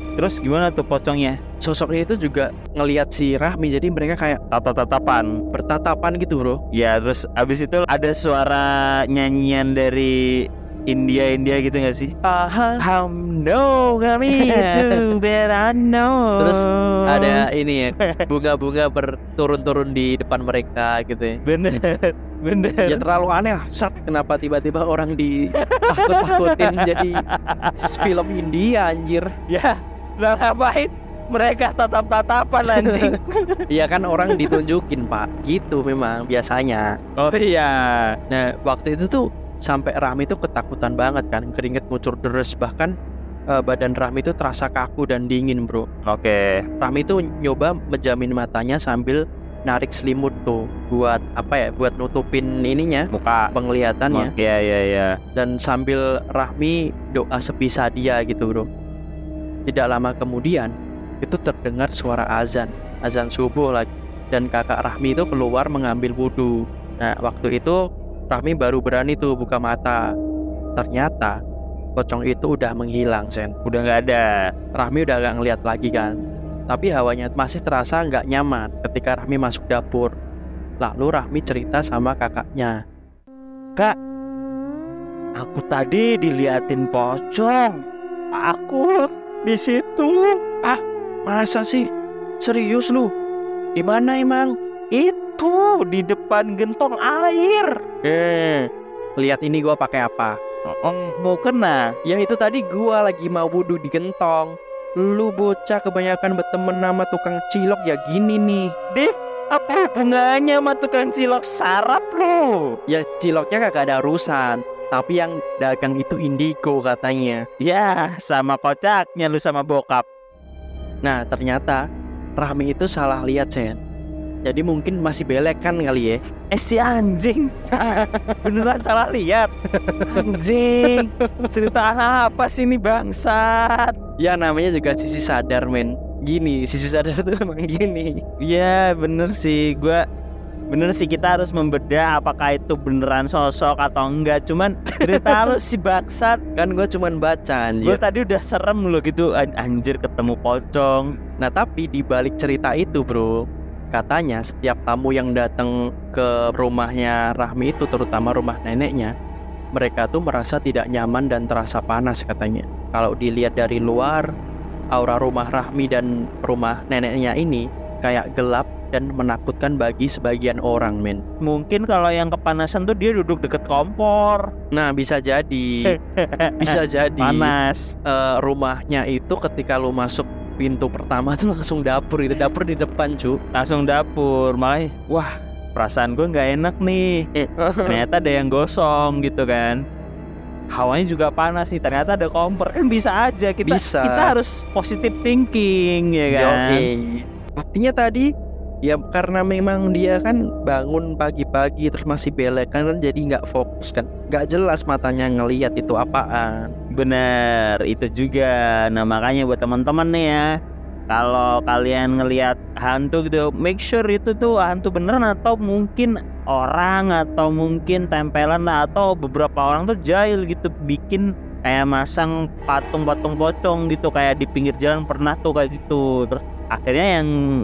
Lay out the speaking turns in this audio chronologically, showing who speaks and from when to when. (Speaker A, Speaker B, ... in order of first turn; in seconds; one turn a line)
Speaker A: 0.2-1.4
Speaker B: 1.6-4.4
Speaker A: 4.5-5.3
Speaker B: 5.5-6.6
Speaker A: 6.7-12.1
Speaker B: 12.2-12.8
Speaker A: 12.8-17.4
Speaker B: 14.3-15.0
Speaker B: 16.4-21.4
Speaker A: 21.5-23.0
Speaker B: 22.9-25.3
Speaker A: 25.6-27.7
Speaker B: 25.9-27.2
Speaker B: 27.8-29.3
Speaker A: 29.5-33.6
Speaker B: 33.7-36.9
Speaker A: 37.2-38.1
Speaker B: 38.3-42.9
Speaker B: 43.5-45.9
Speaker A: 46.0-46.6
Speaker B: 46.8-54.3
Speaker A: 53.1-53.5
Speaker A: 54.1-55.1
Speaker B: 55.4-58.7
Speaker B: 59.7-67.8
Speaker B: 68.3-70.0
Speaker B: 70.8-71.4
Speaker B: 72.0-73.5
Speaker A: 73.6-74.3
Speaker B: 74.8-76.1
Speaker B: 76.7-80.1
Speaker B: 80.8-82.8
Speaker A: 85.4-87.8
Speaker A: 88.4-90.4
Speaker B: 90.6-91.9
Speaker B: 92.4-93.1
Speaker B: 93.8-94.5
Speaker A: 94.9-97.8
Speaker B: 98.0-98.7
Speaker B: 99.2-100.4
Speaker A: 100.7-101.9
Speaker B: 102.1-108.7
Speaker A: 108.9-112.7
Speaker B: 112.9-117.4
Speaker A: 117.6-120.0
Speaker B: 121.0-121.8
Speaker B: 122.4-123.8
Speaker B: 124.4-126.2
Speaker A: 126.5-127.5
Speaker B: 127.7-128.4
Speaker A: 128.4-129.5
Speaker B: 129.7-130.2
Speaker A: 130.1-133.9
Speaker B: 130.8-131.5
Speaker B: 134.2-138.2
Speaker A: 138.4-140.0
Speaker A: 140.7-146.4
Speaker B: 146.6-148.0
Speaker A: 147.8-151.1
Speaker B: 151.4-153.4
Speaker B: 153.9-159.1
Speaker B: 159.8-164.2
Speaker B: 164.9-171.2
Speaker A: 171.4-174.5
Speaker B: 174.7-175.7
Speaker A: 176.0-176.7
Speaker B: 176.6-177.5
Speaker A: 177.2-177.9
Speaker B: 178.1-183.4
Speaker A: 183.5-187.2
Speaker B: 187.4-188.0
Speaker A: 187.9-189.8
Speaker A: 190.7-196.9
Speaker B: 193.6-194.3
Speaker B: 196.3-198.2
Speaker B: 198.9-206.7
Speaker A: 206.9-210.4
Speaker A: 211.1-227.3